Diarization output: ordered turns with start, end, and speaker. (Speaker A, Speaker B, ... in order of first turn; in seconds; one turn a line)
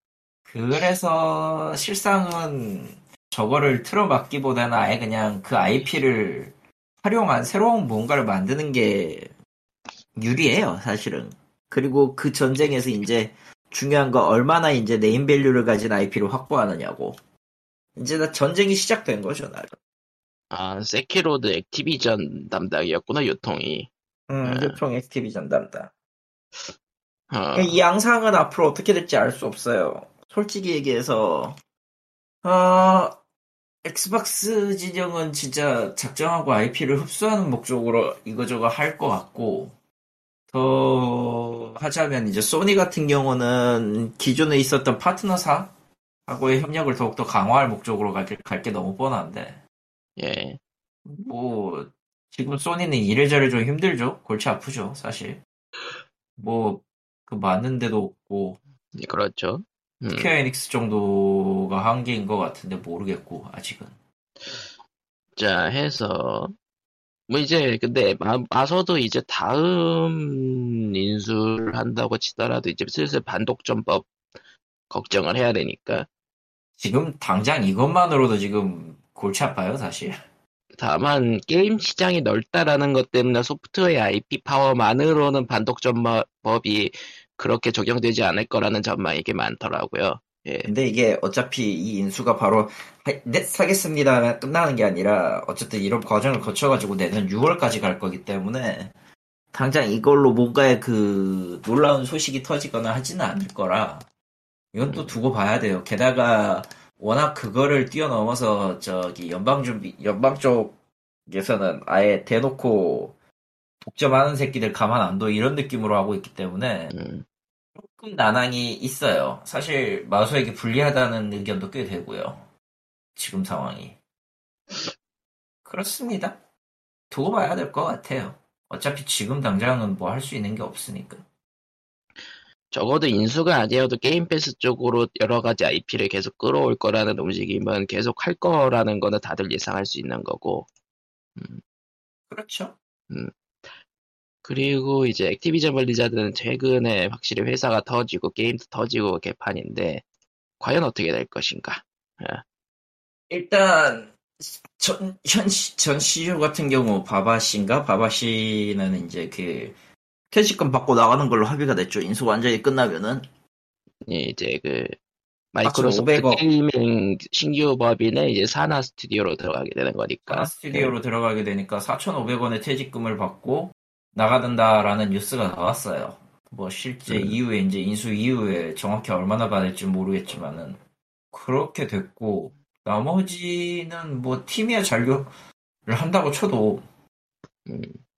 Speaker A: 0.5-9.3
Speaker A: 10.2-17.2
Speaker A: 18.0-19.8
Speaker B: 20.5-23.9
Speaker A: 24.3-25.9
Speaker B: 24.4-24.8
Speaker B: 27.3-27.8
Speaker A: 27.6-31.6
Speaker A: 32.4-33.2
Speaker A: 33.9-39.7
Speaker A: 40.5-45.7
Speaker A: 46.3-49.6
Speaker B: 50.2-50.6
Speaker A: 51.1-55.4
Speaker A: 56.4-58.6
Speaker B: 59.0-60.3
Speaker A: 60.1-63.9
Speaker B: 65.4-66.5
Speaker B: 67.3-74.1
Speaker B: 74.9-76.1
Speaker A: 76.8-80.2
Speaker B: 80.8-90.7
Speaker A: 90.7-98.9
Speaker A: 99.5-104.1
Speaker A: 104.7-110.8
Speaker B: 104.9-105.1
Speaker A: 111.3-113.1
Speaker A: 113.8-116.9
Speaker B: 116.9-117.2
Speaker A: 117.8-122.4
Speaker A: 123.2-124.0
Speaker A: 125.7-126.4
Speaker A: 127.1-131.2
Speaker B: 132.7-140.7
Speaker B: 141.4-141.6
Speaker A: 142.3-142.8
Speaker B: 144.4-150.0
Speaker B: 150.6-152.4
Speaker A: 153.3-159.8
Speaker A: 160.3-163.3
Speaker B: 164.1-165.0
Speaker B: 165.5-170.9
Speaker A: 165.7-166.4
Speaker A: 170.3-180.8
Speaker B: 177.1-177.4
Speaker A: 181.3-185.3
Speaker A: 185.9-186.8
Speaker B: 187.7-188.0